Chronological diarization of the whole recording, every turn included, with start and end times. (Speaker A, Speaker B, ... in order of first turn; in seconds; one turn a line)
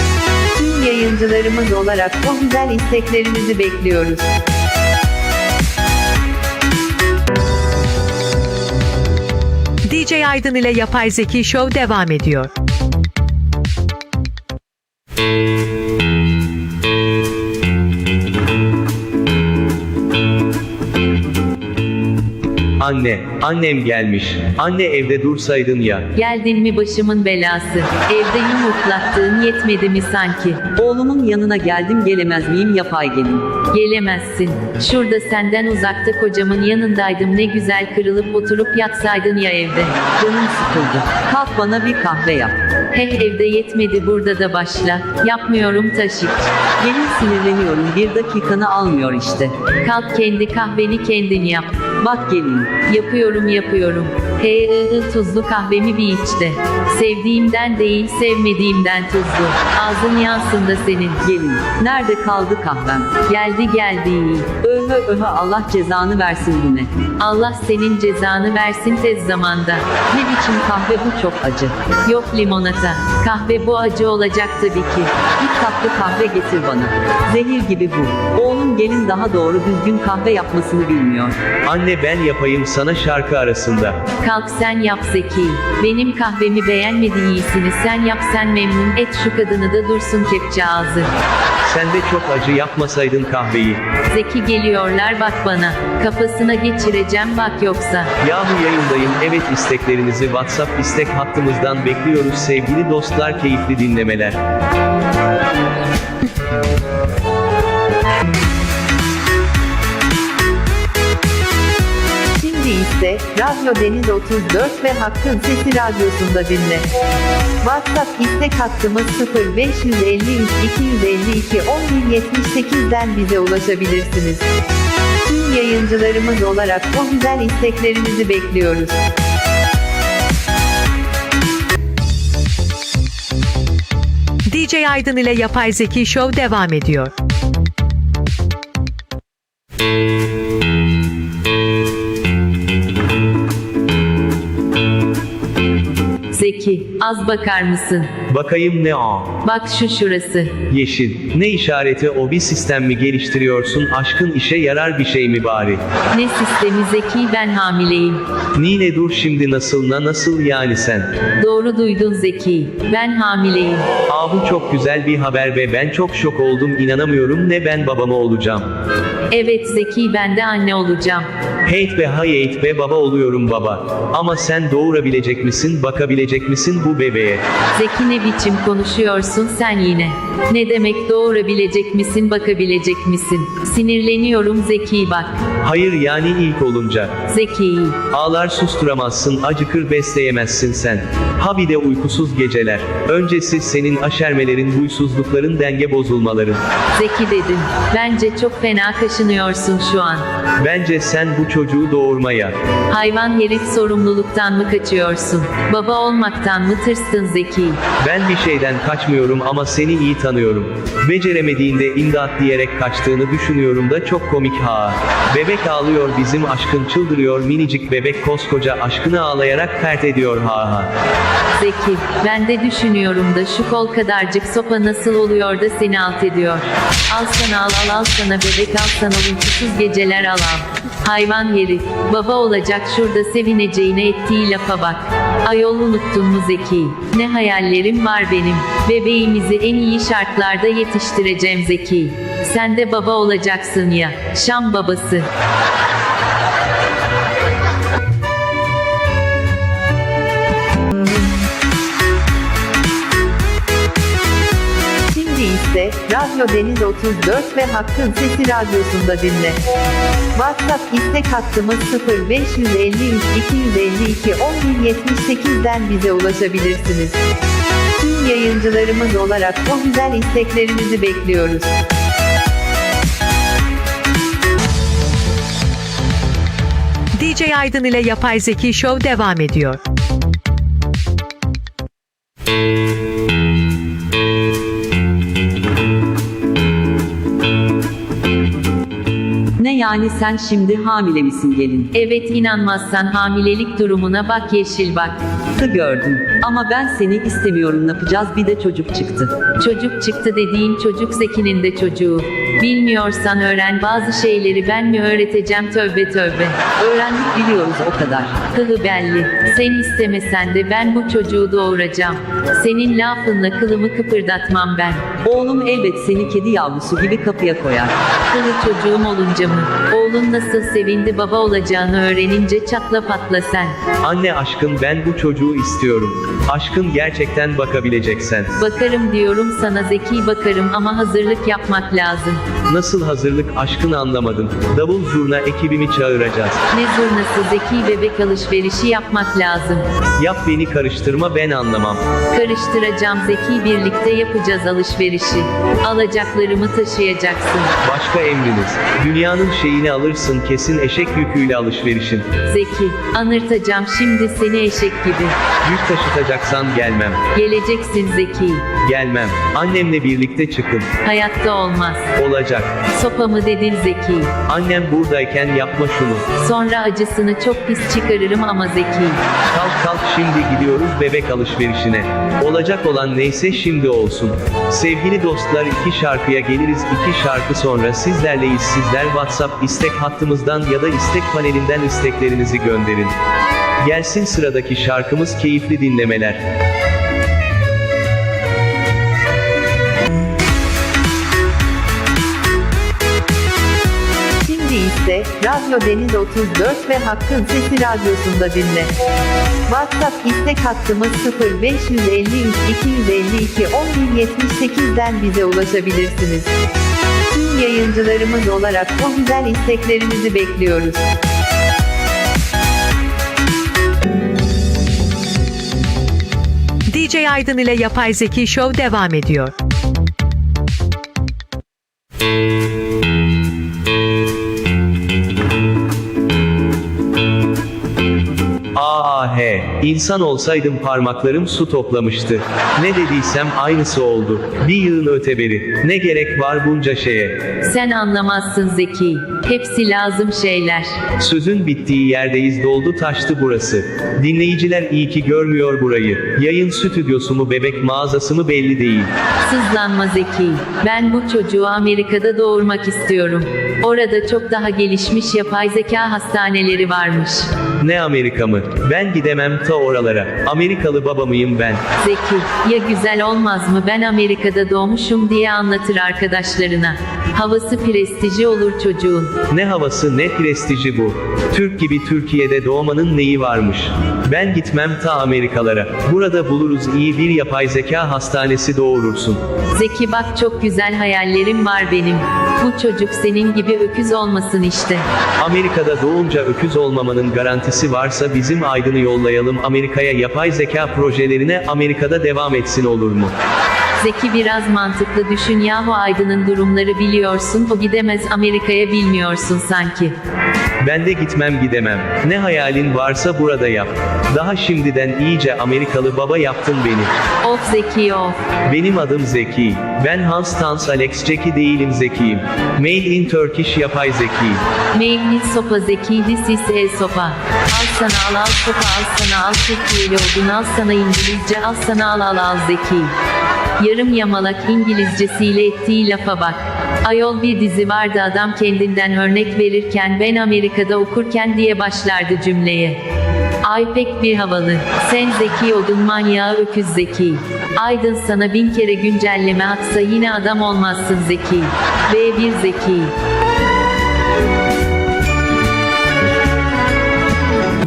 Speaker A: 0.6-4.3
Speaker B: 9.8-12.5
Speaker C: 22.8-26.1
Speaker D: 26.1-30.6
Speaker E: 30.8-33.5
Speaker D: 33.7-40.0
Speaker E: 40.2-42.6
Speaker D: 42.9-46.5
Speaker E: 46.8-49.5
Speaker D: 49.8-51.8
Speaker E: 52.0-52.7
Speaker D: 52.8-61.2
Speaker E: 61.2-63.1
Speaker D: 63.2-64.5
Speaker E: 64.6-66.9
Speaker D: 67.2-69.8
Speaker E: 70.1-71.8
Speaker D: 72.0-75.1
Speaker E: 75.4-81.3
Speaker C: 81.7-84.0
Speaker D: 84.2-91.1
Speaker C: 91.6-93.8
Speaker D: 94.1-98.1
Speaker C: 98.2-104.4
Speaker A: 112.3-116.9
Speaker A: 117.6-124.5
Speaker A: 125.3-129.0
Speaker B: 134.5-137.1
Speaker D: 146.3-148.1
Speaker C: 148.3-149.3
Speaker D: 149.4-150.6
Speaker C: 150.7-155.8
Speaker D: 156.1-158.2
Speaker C: 158.5-161.1
Speaker D: 161.4-163.9
Speaker C: 164.1-168.7
Speaker D: 169.3-171.3
Speaker C: 171.7-177.4
Speaker D: 177.7-185.4
Speaker C: 185.6-187.2
Speaker D: 187.3-188.0
Speaker C: 188.1-196.6
Speaker D: 196.9-200.2
Speaker C: 200.6-202.6
Speaker D: 202.9-207.8
Speaker C: 208.0-220.9
Speaker D: 221.6-245.3
Speaker A: 255.1-259.6
Speaker A: 260.3-267.2
Speaker A: 268.0-271.7
Speaker B: 277.1-279.8
Speaker E: 289.6-291.9
Speaker D: 291.9-295.2
Speaker E: 295.6-299.3
Speaker D: 299.6-306.7
Speaker E: 306.8-308.4
Speaker D: 308.5-315.0
Speaker E: 315.2-318.0
Speaker D: 318.3-323.8
Speaker C: 324.0-328.5
Speaker D: 328.6-332.4
Speaker C: 332.7-336.6
Speaker D: 336.7-339.8
Speaker C: 340.2-342.0
Speaker D: 342.3-347.7
Speaker C: 347.8-352.2
Speaker D: 352.4-355.3
Speaker C: 355.6-357.2
Speaker D: 357.3-358.7
Speaker C: 358.8-360.9
Speaker D: 361.0-362.1
Speaker C: 362.1-362.7
Speaker D: 362.9-364.4
Speaker C: 364.5-366.3
Speaker D: 366.4-369.2
Speaker C: 369.5-383.1
Speaker C: 383.8-386.4
Speaker A: 394.4-398.9
Speaker A: 399.7-406.5
Speaker A: 407.3-411.1
Speaker B: 416.9-419.5
Speaker C: 428.7-437.4
Speaker D: 437.6-441.0
Speaker C: 441.2-449.1
Speaker D: 449.4-457.5
Speaker C: 457.8-461.8
Speaker D: 462.0-469.4
Speaker C: 469.5-479.4
Speaker D: 479.8-485.1
Speaker C: 485.4-493.3
Speaker D: 494.0-500.1
Speaker C: 500.8-507.1
Speaker D: 507.4-508.4
Speaker C: 508.6-514.6
Speaker D: 514.9-523.1
Speaker D: 523.8-533.0
Speaker D: 533.6-543.1